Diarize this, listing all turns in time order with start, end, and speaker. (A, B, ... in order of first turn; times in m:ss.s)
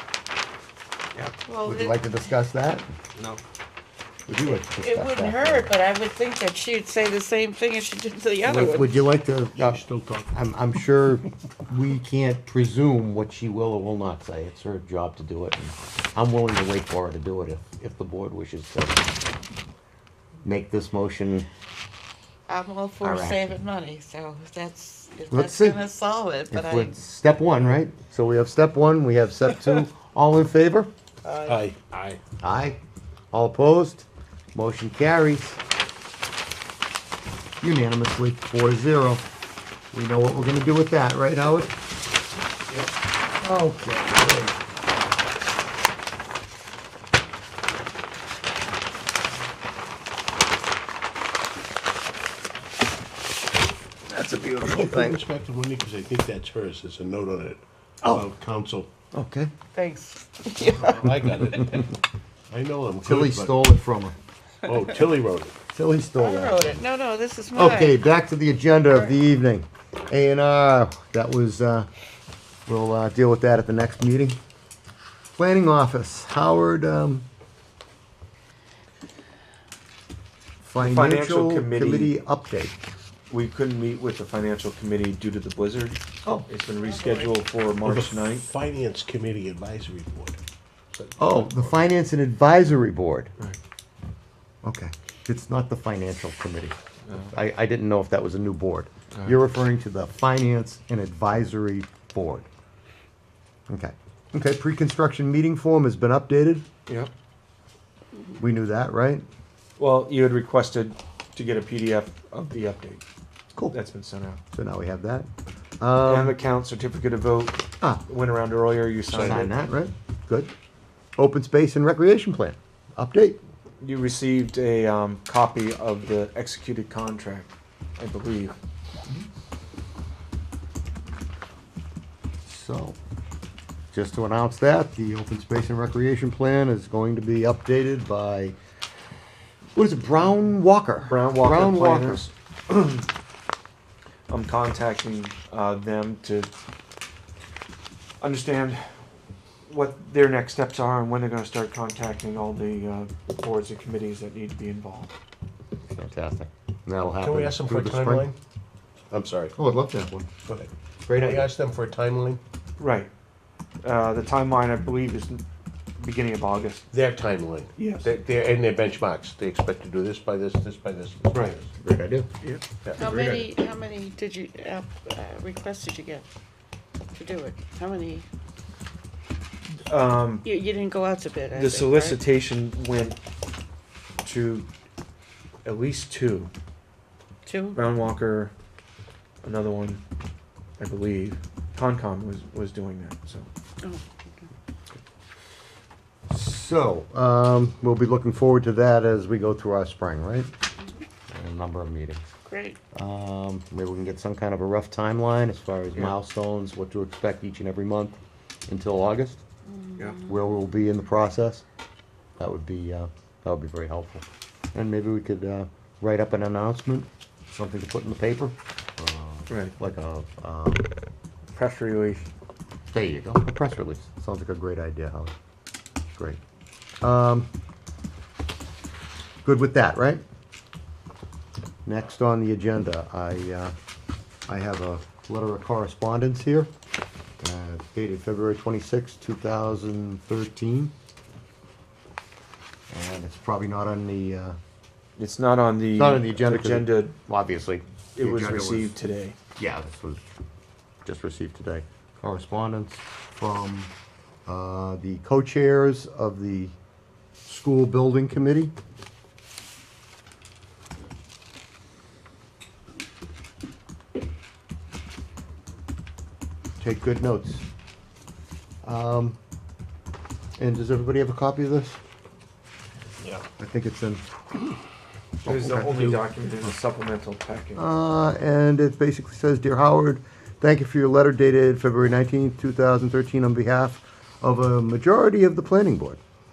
0:01.4-0:02.0 A
0:01.6-0:02.8 B
0:04.3-0:05.7 B
0:04.3-0:08.9 A
0:08.4-0:19.1 B
0:09.5-0:10.3 C
0:20.4-0:21.5 B
0:22.5-0:27.0 A
0:23.0-0:23.5 B
0:25.3-0:25.9 B
0:26.5-0:30.9 B
0:31.2-0:31.6 A
0:31.4-0:32.2 C
0:32.4-0:32.8 B
0:33.3-0:35.6 B
0:37.6-0:39.2 B
0:39.9-0:41.7 B
0:43.4-0:44.5 B
0:54.1-0:55.1 D
0:54.6-0:58.9 C
0:58.0-0:58.3 B
0:59.1-0:59.5 B
0:59.7-1:01.6 A
1:00.8-1:01.9 C
1:02.5-1:03.6 C
1:03.0-1:04.2 B
1:04.6-1:05.5 C
1:05.7-1:06.8 B
1:06.2-1:08.0 A
1:07.5-1:11.9 B
1:12.7-1:14.4 B
1:15.3-1:17.2 B
1:20.6-1:22.8 B
1:20.8-1:22.1 D
1:23.3-1:28.5 D
1:26.8-1:27.3 A
1:27.8-1:30.4 C
1:30.9-1:31.9 C
1:31.2-1:33.3 B
1:34.6-1:42.5 B
1:37.1-1:37.3 D
1:43.7-1:46.6 B
1:48.4-1:49.2 B
1:49.8-1:53.0 D
1:53.7-1:54.4 D
1:54.5-1:55.3 B
1:55.8-1:56.4 B
1:56.0-1:59.5 D
1:59.1-1:59.5 C
1:59.2-2:00.5 B
2:01.2-2:03.4 B
2:03.8-2:08.6 D
2:12.4-2:13.0 B
2:13.9-2:18.6 B
2:19.7-2:22.3 B
2:21.0-2:23.1 D
2:24.3-2:26.5 D
2:28.2-2:28.8 D
2:29.7-2:35.1 D
2:35.9-2:38.3 B
2:37.2-2:38.4 C
2:39.1-2:39.5 C
2:39.5-2:40.3 B
2:40.5-2:42.4 C
2:41.1-2:41.5 B
2:42.8-2:43.1 D
2:43.8-2:45.4 D
2:46.0-2:46.8 D
2:46.9-2:51.7 C
2:47.8-2:48.1 D
2:51.3-2:51.6 D
2:51.8-2:52.3 B
2:52.4-2:53.5 D
2:53.0-2:56.2 A
2:57.1-2:58.2 A
2:59.7-3:00.5 D
3:00.4-3:02.2 A
3:01.5-3:03.2 D
3:04.2-3:04.7 D
3:05.6-3:06.5 D
3:07.4-3:07.8 A
3:07.7-3:08.5 D
3:09.4-3:10.0 D
3:10.8-3:13.5 D
3:13.8-3:14.5 A
3:16.3-3:20.5 B
3:21.3-3:22.2 B
3:22.4-3:22.8 A
3:22.9-3:29.4 B
3:29.7-3:30.4 A
3:30.2-3:31.6 B
3:32.4-3:40.9 B
3:39.5-3:39.7 D
3:41.5-3:42.3 D
3:42.9-3:45.3 B
3:47.0-3:47.5 B
3:49.4-3:50.2 B
3:51.8-3:53.7 B
3:54.5-3:56.7 B
3:57.4-4:00.9 B
4:02.9-4:04.6 B
4:05.2-4:07.2 D
4:05.9-4:08.9 B
4:08.2-4:09.4 D
4:09.6-4:10.2 B
4:11.0-4:13.9 B
4:14.5-4:16.7 B
4:17.4-4:18.7 B
4:26.8-4:27.6 B
4:28.8-4:29.4 B
4:30.6-4:32.0 B
4:33.6-4:34.2 B
4:35.4-4:37.8 D
4:35.4-4:36.2 B
4:37.8-4:46.2 B